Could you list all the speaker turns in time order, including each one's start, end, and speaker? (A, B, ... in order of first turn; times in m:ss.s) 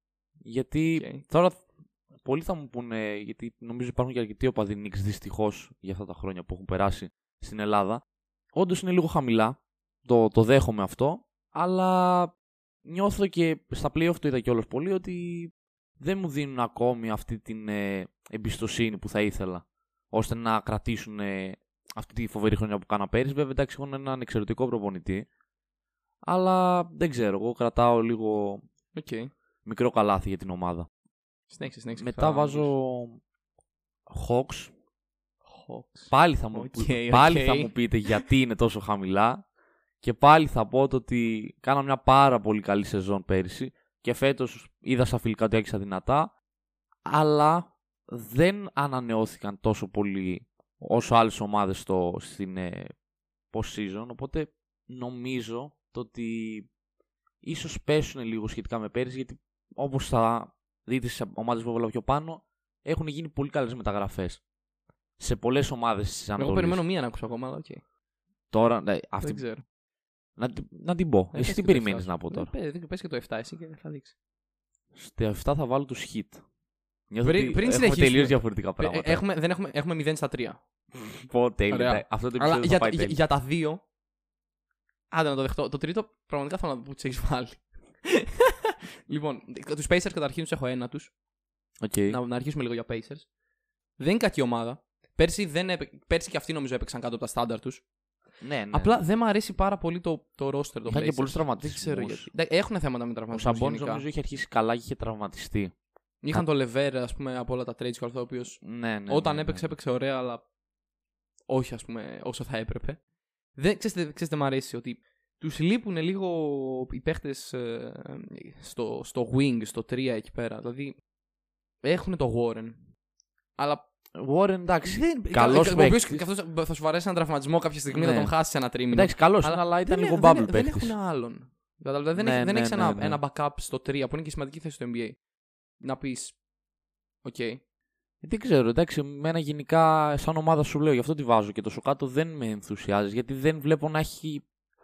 0:00.4-0:01.6 A
0:00.9-0:01.2 B
0:02.2-0:08.0 A
0:08.5-0:12.3 A
0:12.8-0:25.3 A
0:26.2-0:28.6 A
0:29.0-0:29.3 B
0:29.6-0:30.9 A
0:31.5-0:32.7 B
0:32.0-0:33.2 A
0:34.1-0:34.7 A
0:35.5-0:38.3 B
0:36.1-0:39.4 A
0:40.0-0:46.3 A
0:47.0-0:52.9 A
0:53.5-0:56.7 A
0:57.4-1:04.4 A
1:05.2-1:06.8 A
1:06.4-1:07.8 B
1:08.5-1:09.4 A
1:09.2-1:09.6 B
1:10.4-1:12.5 A
1:11.3-1:14.1 B
1:14.9-1:16.4 A
1:17.1-1:19.2 A
1:17.2-1:20.6 B
1:21.0-1:23.2 A
1:21.7-1:23.8 B
1:25.1-1:31.1 B
1:31.8-1:32.2 A
1:32.1-1:33.3 B
1:34.0-1:37.8 B
1:38.4-1:39.0 A
1:38.7-1:44.0 B
1:40.9-1:42.3 A
1:43.3-1:45.7 A
1:46.2-1:50.4 B
1:48.6-1:49.7 A
1:51.5-1:53.0 B
1:53.6-2:01.0 B
2:01.8-2:02.8 B
2:03.6-2:03.8 B
2:04.2-2:06.2 A
2:04.8-2:15.2 B
2:07.9-2:08.4 A
2:08.9-2:11.0 A
2:12.2-2:13.2 A
2:15.8-2:16.4 B
2:17.2-2:17.6 B
2:18.2-2:24.4 A